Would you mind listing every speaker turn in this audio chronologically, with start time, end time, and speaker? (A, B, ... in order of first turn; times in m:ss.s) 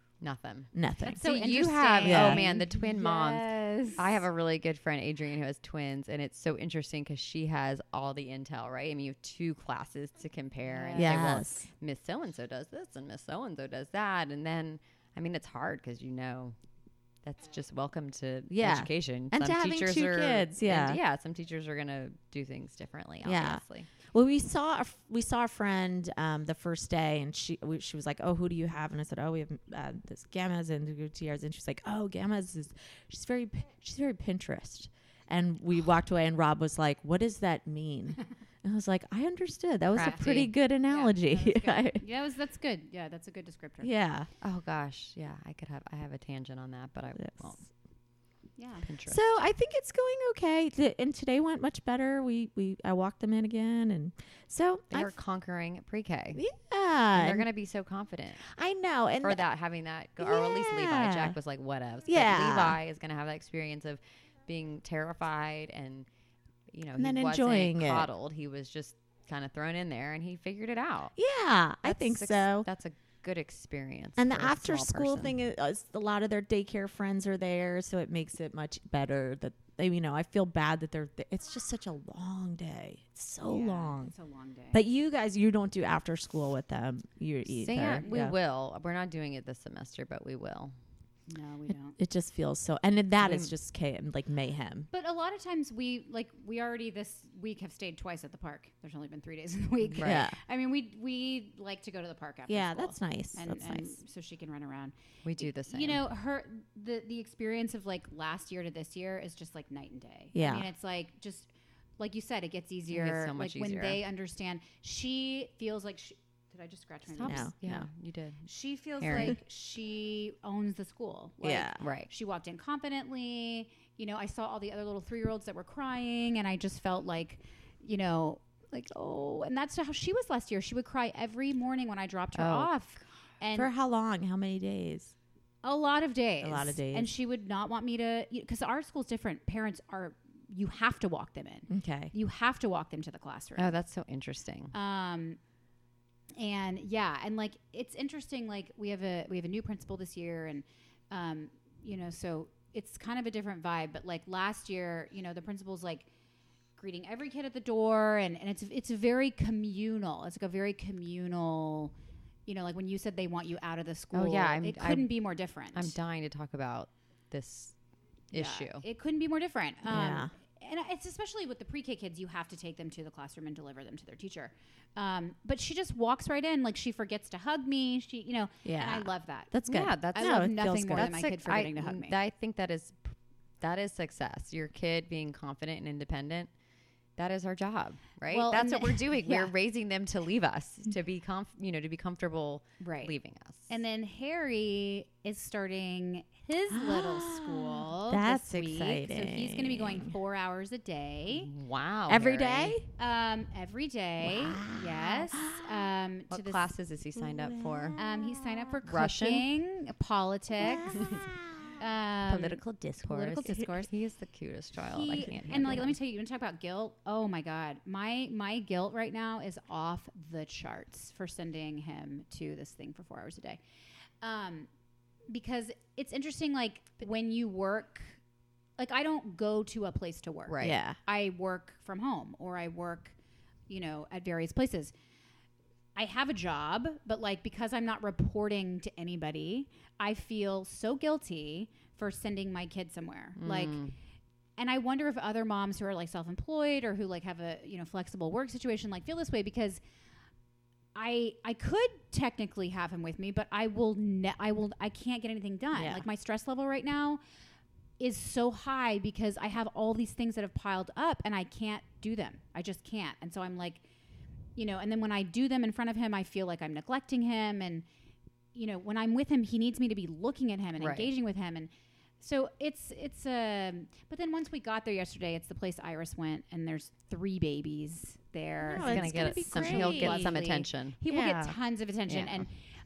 0:00.2-0:16.6 A
0:00.7-0:01.2 B
0:01.0-0:04.2 C
0:02.0-0:02.4 B
0:10.7-0:11.2 C
0:11.0-0:11.7 B
0:17.2-0:23.9 A
0:18.5-0:21.0 B
0:23.2-0:42.0 B
0:39.9-0:40.5 A
0:40.0-0:40.2 C
0:40.8-0:43.9 C
0:43.8-0:44.3 B
0:44.4-0:47.7 A
0:47.2-0:47.5 B
0:48.6-0:48.8 C
0:48.8-0:49.2 A
0:49.1-0:55.1 B
0:54.9-0:56.4 A
0:56.3-0:57.5 B
0:57.1-0:58.5 A
0:58.4-0:59.4 B
0:59.2-1:06.1 A
1:00.2-1:01.4 B
1:02.1-1:02.8 B
1:06.7-1:11.1 A
1:07.0-1:08.1 B
1:11.2-1:12.7 B
1:11.8-1:15.4 A
1:14.2-1:24.1 B
1:23.4-1:24.8 C
1:24.7-1:28.3 B
1:27.5-1:30.7 A
1:27.8-1:28.1 C
1:31.3-1:32.0 C
1:32.0-1:34.9 B
1:33.2-1:33.5 A
1:34.9-1:57.5 C
1:39.9-1:40.3 A
1:40.0-1:40.4 B
1:42.5-1:44.0 B
1:45.2-1:46.0 A
1:50.3-1:50.7 B
1:52.9-1:54.0 A
1:57.1-1:58.4 A
1:57.2-1:57.9 B
1:58.4-2:13.7 C
1:59.0-1:59.4 A
2:01.4-2:01.8 B
2:01.8-2:02.1 A
2:12.3-2:12.7 A
2:13.5-2:15.1 B
2:15.6-2:23.7 C
2:16.4-2:17.1 B
2:21.7-2:22.1 B
2:23.6-2:24.7 A
2:24.7-2:25.4 C
2:26.4-2:36.1 C
2:36.8-2:41.9 C
2:42.4-2:45.9 C
2:44.1-2:45.1 A
2:45.7-2:47.7 A
2:48.3-2:48.8 A
2:48.3-2:59.5 C
2:49.9-2:50.3 B
2:58.6-3:01.1 B
2:59.7-3:06.5 A
3:00.1-3:02.2 C
3:07.2-3:13.7 A
3:08.3-3:09.5 C
3:12.8-3:13.1 C
3:13.7-3:21.5 C
3:16.7-3:20.1 B
3:21.3-3:22.8 A
3:22.1-3:22.8 B
3:23.0-3:26.7 C
3:24.2-3:25.8 B
3:26.3-3:28.0 A
3:27.2-3:28.7 B
3:28.0-3:31.0 C
3:28.8-3:29.5 A
3:30.6-3:31.3 B
3:30.9-3:31.2 A
3:31.8-3:33.9 C
3:32.2-3:33.6 B
3:33.0-3:35.9 A
3:34.9-3:43.6 C
3:35.5-3:35.8 B
3:44.2-3:44.7 C
3:45.3-3:48.2 C
3:48.8-3:53.1 C
3:50.5-3:50.8 A
3:50.6-3:51.0 B
3:53.7-3:54.9 C
3:56.0-4:03.8 C
4:03.4-4:03.9 A
4:04.6-4:09.8 C
4:10.9-4:17.2 C
4:15.7-4:16.0 B
4:18.0-4:23.8 C
4:24.6-4:27.8 C
4:28.5-4:42.5 C
4:30.8-4:31.1 A
4:38.6-4:40.4 B
4:38.8-4:41.0 A
4:41.1-4:41.6 B
4:42.1-4:42.5 A